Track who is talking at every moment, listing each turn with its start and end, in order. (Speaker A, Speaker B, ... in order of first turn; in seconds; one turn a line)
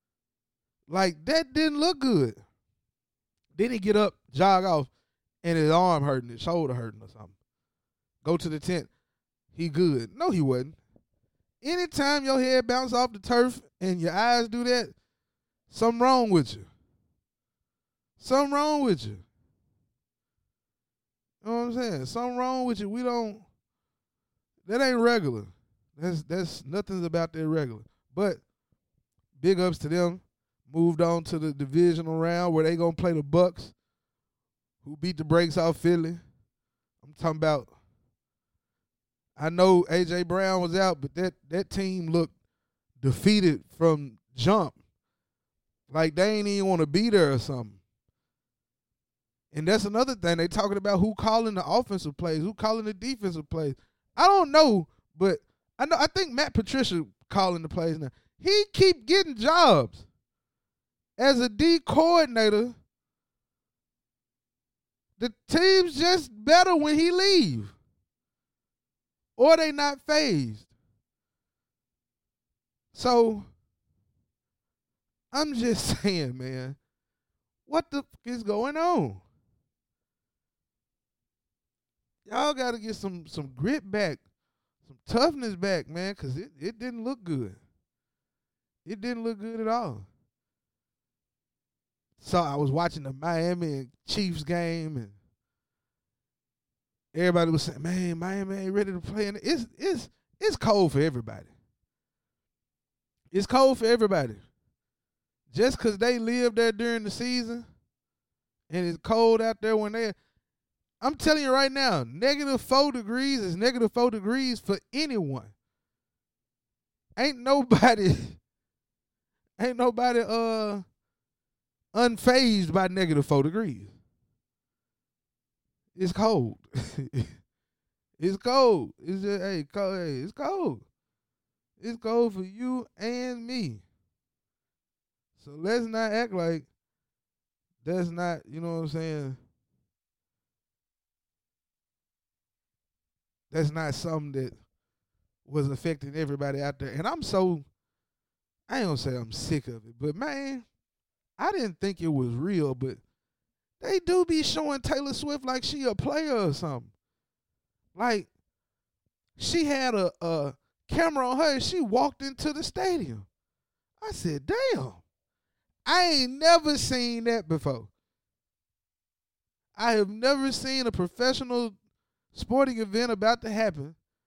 Speaker A: 0.9-2.4
Speaker A: 3.5-4.9
Speaker A: 5.4-7.3
Speaker A: 8.2-8.9
Speaker A: 9.5-10.8
Speaker A: 11.6-14.9
Speaker A: 15.7-16.7
Speaker A: 18.2-19.2
Speaker A: 21.4-23.4
Speaker A: 24.6-28.4
Speaker A: 29.4-33.7
Speaker A: 34.8-36.2
Speaker A: 37.0-37.7
Speaker A: 39.4-42.3
Speaker A: 43.0-44.8
Speaker A: 45.9-47.8
Speaker A: 49.5-60.0
Speaker A: 61.2-62.8
Speaker A: 65.2-67.7
Speaker A: 69.4-70.7
Speaker A: 72.9-73.5
Speaker A: 75.3-76.8
Speaker A: 77.7-79.2
Speaker A: 82.2-84.2
Speaker A: 84.9-87.6
Speaker A: 88.8-90.1
Speaker A: 92.2-95.2
Speaker A: 97.1-101.5
Speaker A: 103.3-104.4
Speaker A: 105.5-107.7
Speaker A: 108.7-110.1
Speaker A: 111.0-115.5
Speaker A: 117.2-118.4
Speaker A: 119.6-120.8
Speaker A: 121.9-123.9
Speaker A: 125.9-127.3
Speaker A: 128.2-130.8
Speaker A: 131.8-133.8
Speaker A: 135.4-136.7
Speaker A: 137.8-139.4
Speaker A: 143.5-144.5
Speaker A: 145.4-147.7
Speaker A: 148.7-150.6
Speaker A: 151.4-153.0
Speaker A: 153.8-156.9
Speaker A: 157.9-158.3
Speaker A: 159.4-163.2
Speaker A: 164.0-165.0
Speaker A: 165.8-167.9
Speaker A: 169.8-171.7
Speaker A: 172.3-173.9